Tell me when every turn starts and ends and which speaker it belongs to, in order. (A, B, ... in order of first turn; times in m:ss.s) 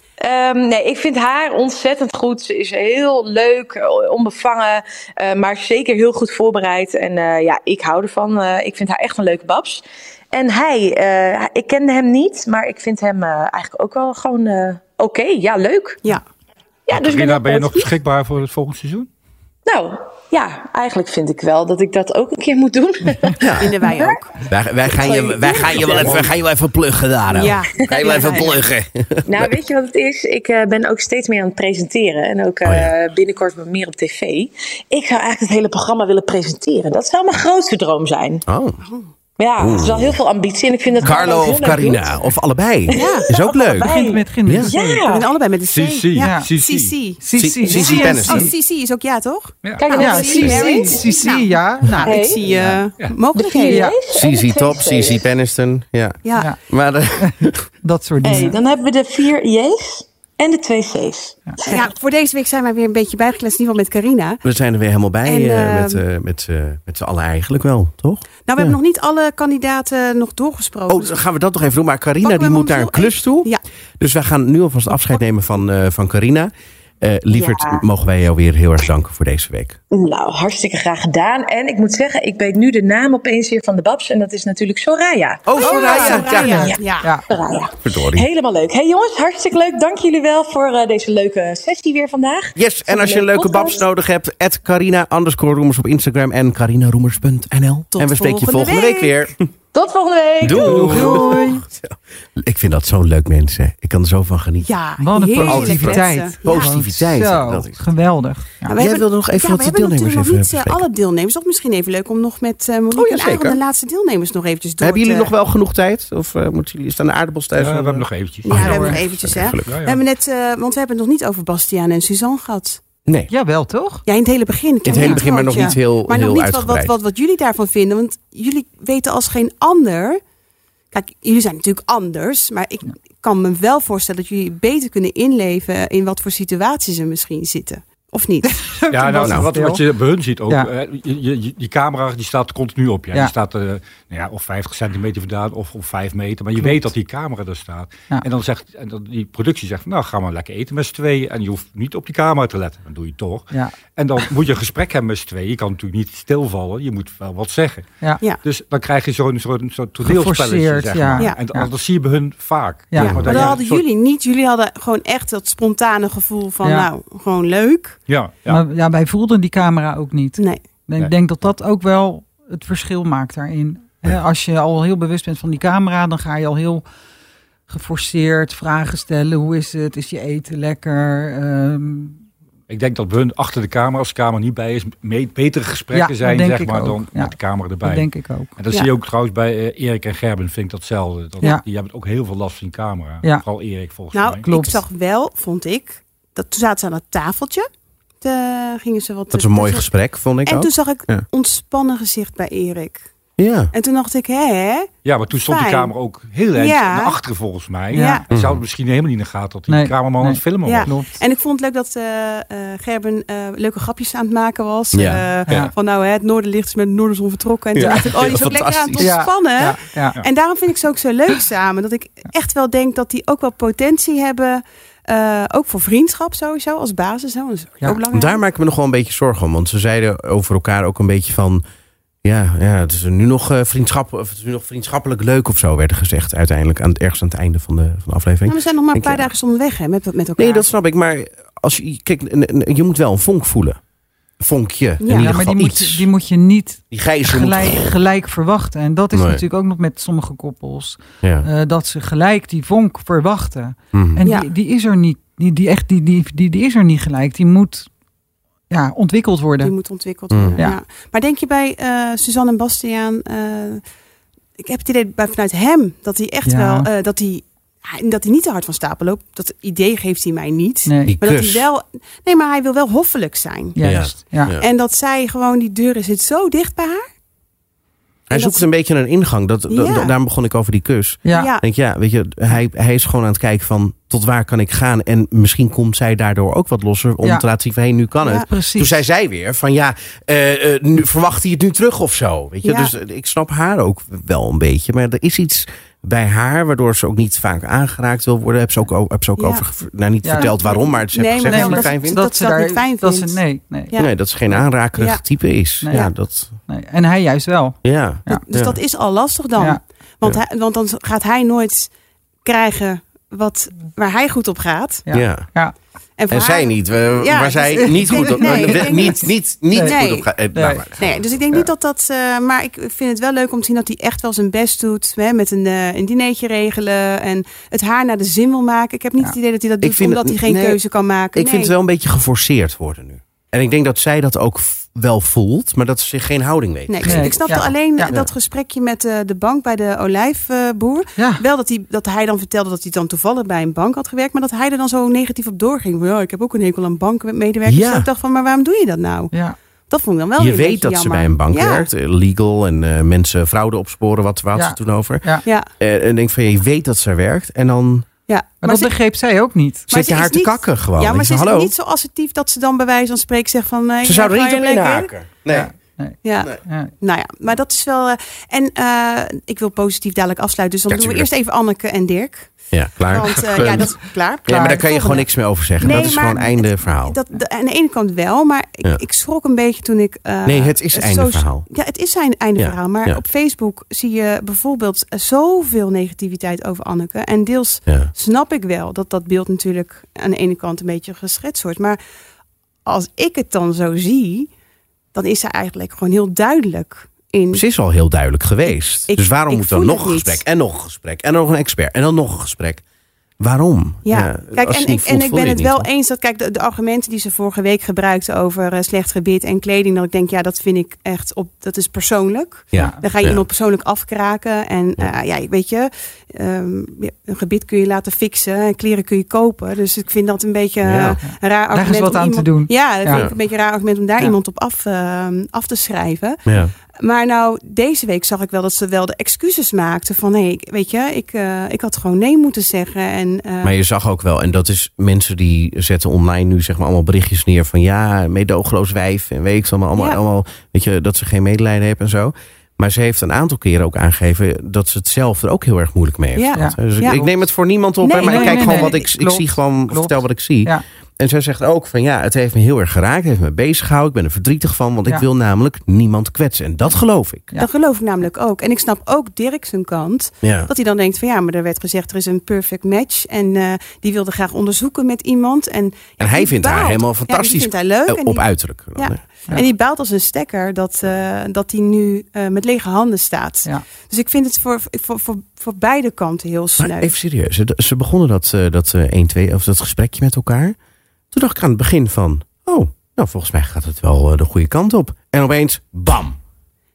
0:00.2-0:16.0 A
0:16.9-0:17.9 A
0:16.9-0:19.1 B
0:19.6-0:24.2 A
0:23.4-0:23.8 C
0:23.6-0:24.3 D
0:24.5-0:29.5 C
0:24.9-0:26.3 A
0:27.3-0:28.5 D
0:27.7-0:28.5 A
0:29.2-0:38.4 A
0:32.6-0:32.9 C
0:38.5-0:38.8 C
0:38.8-0:39.1 D
0:39.4-0:42.1 A
0:39.6-0:40.2 C
0:41.0-0:43.9 C
0:42.9-0:45.3 A
0:42.9-0:43.3 D
0:43.8-0:45.0 E
0:45.1-0:53.9 D
0:45.7-0:47.0 B
0:46.2-0:46.5 E
0:47.2-0:48.5 E
0:47.4-0:48.5 C
0:49.6-0:50.0 B
0:49.8-0:51.0 A
0:49.9-0:52.2 E
0:52.0-0:52.5 A
0:52.5-0:53.2 B
0:53.3-0:55.2 A
0:53.7-0:54.0 E
0:54.1-0:57.7 C
0:56.2-0:56.5 D
0:57.2-0:58.6 E
0:58.2-1:01.9 A
1:01.7-1:04.4 D
1:04.4-1:08.7 C
1:05.2-1:06.0 D
1:08.4-1:11.2 D
1:10.9-1:19.8 C
1:12.2-1:13.6 D
1:17.3-1:17.8 A
1:19.9-1:33.8 A
1:25.4-1:26.7 C
1:25.6-1:27.1 D
1:25.8-1:27.2 E
1:27.8-1:28.3 C
1:32.6-1:39.4 C
1:38.0-1:39.1 D
1:39.7-1:41.1 A
1:40.4-1:44.7 C
1:40.6-1:41.6 E
1:44.6-1:46.7 D
1:45.0-1:48.7 E
1:45.4-1:47.8 C
1:48.6-1:55.3 D
1:48.7-1:50.8 C
1:52.9-1:53.6 C
1:54.8-1:59.7 C
1:57.6-1:59.0 B
1:58.4-2:02.8 D
1:58.5-1:59.0 E
1:59.6-2:00.0 B
2:03.0-2:03.3 C
2:03.3-2:04.0 E
2:04.0-2:10.2 D
2:04.8-2:06.9 C
2:04.9-2:05.8 E
2:10.9-2:18.6 D
2:18.5-2:19.8 E
2:18.9-2:37.9 B
2:19.2-2:19.5 C
2:38.4-2:43.8 B
2:40.0-2:41.7 E
2:42.9-2:43.5 E
2:43.0-2:43.5 C
2:43.2-2:48.0 D
2:46.6-2:46.9 E
2:48.1-2:48.6 B
2:48.5-2:56.8 E
2:57.7-3:02.2 E
3:02.7-3:14.5 B
3:05.9-3:08.5 E
3:14.1-3:17.7 D
3:14.5-3:14.8 E
3:18.2-3:19.9 D
3:19.3-3:21.2 C
3:20.4-3:23.1 D
3:23.4-3:23.7 C
3:23.7-3:25.9 D
3:25.0-3:30.9 B
3:26.5-3:27.2 D
3:27.9-3:28.2 E
3:27.9-3:28.2 D
3:28.3-3:28.6 C
3:29.7-3:31.2 E
3:30.6-3:48.4 D
3:34.9-3:35.2 C
3:37.7-3:39.2 C
3:37.8-3:38.1 E
3:39.0-3:40.2 E
3:48.1-3:51.6 C
3:52.2-3:59.3 C
3:58.4-4:00.6 D
4:00.4-4:03.8 C
4:04.4-4:06.1 C
4:05.0-4:05.3 D
4:05.1-4:17.9 E
4:06.9-4:07.9 C
4:09.1-4:09.4 C
4:11.2-4:11.5 C
4:13.9-4:14.2 C
4:14.2-4:14.5 D
4:18.7-4:19.7 E
4:19.6-4:23.8 D
4:20.3-4:20.6 C
4:24.6-4:33.8 D
4:26.4-4:26.9 E
4:30.9-4:31.2 E
4:31.0-4:31.7 C
4:33.8-4:34.5 E
4:33.8-4:34.7 C
4:34.6-4:37.0 D
4:38.3-5:02.2 C
4:38.3-4:38.6 D
4:39.7-4:40.1 D
4:41.2-4:41.5 E
4:41.3-4:41.6 D
4:48.4-4:49.0 E
4:52.6-4:52.9 D
4:59.4-4:59.6 D
5:00.2-5:00.5 E
5:00.3-5:04.1 D
5:01.4-5:03.9 E
5:03.9-5:06.5 C
5:05.0-5:05.2 D
5:05.8-5:06.1 E
5:06.7-5:08.4 E
5:07.8-5:08.8 C
5:08.4-5:11.9 D
5:12.4-5:15.0 D
5:15.0-5:15.7 E
5:15.1-5:15.5 C
5:16.2-5:20.3 D
5:16.3-5:21.7 C
5:17.8-5:19.2 E
5:20.5-5:20.8 E
5:21.0-5:31.7 D
5:29.8-5:30.8 C
5:31.3-5:38.3 C
5:36.9-5:49.3 D
5:37.0-5:38.1 E
5:41.2-5:41.4 E
5:47.6-5:48.1 C
5:49.9-5:51.8 D
5:50.4-5:58.1 C
5:54.5-5:55.4 E
5:58.3-5:58.9 D
5:58.6-5:59.9 E
5:59.9-6:05.1 D
5:59.9-6:01.7 C
6:04.0-6:05.7 C
6:05.5-6:06.9 E
6:06.2-6:32.0 D
6:10.9-6:11.3 C
6:12.7-6:17.2 C
6:14.5-6:14.8 E
6:20.4-6:21.6 C
6:22.6-6:23.2 C
6:32.8-6:34.5 D
6:35.1-6:37.6 D
6:37.5-6:42.8 C
6:38.7-6:40.4 D
6:43.4-6:45.9 C
6:44.0-7:06.4 D
6:52.7-6:53.4 C
6:52.8-6:53.0 E
7:00.8-7:01.2 C
7:01.7-7:03.3 E
7:03.1-7:03.3 C
7:06.4-7:06.7 C
7:07.0-7:13.7 D
7:13.6-7:37.5 C
7:26.3-7:27.2 D
7:26.5-7:27.3 E
7:28.0-7:29.0 D
7:28.2-7:30.8 E
7:37.6-7:57.1 D
7:40.4-7:40.7 C
7:46.2-7:49.2 C
7:56.8-8:00.8 C
8:01.3-8:06.4 C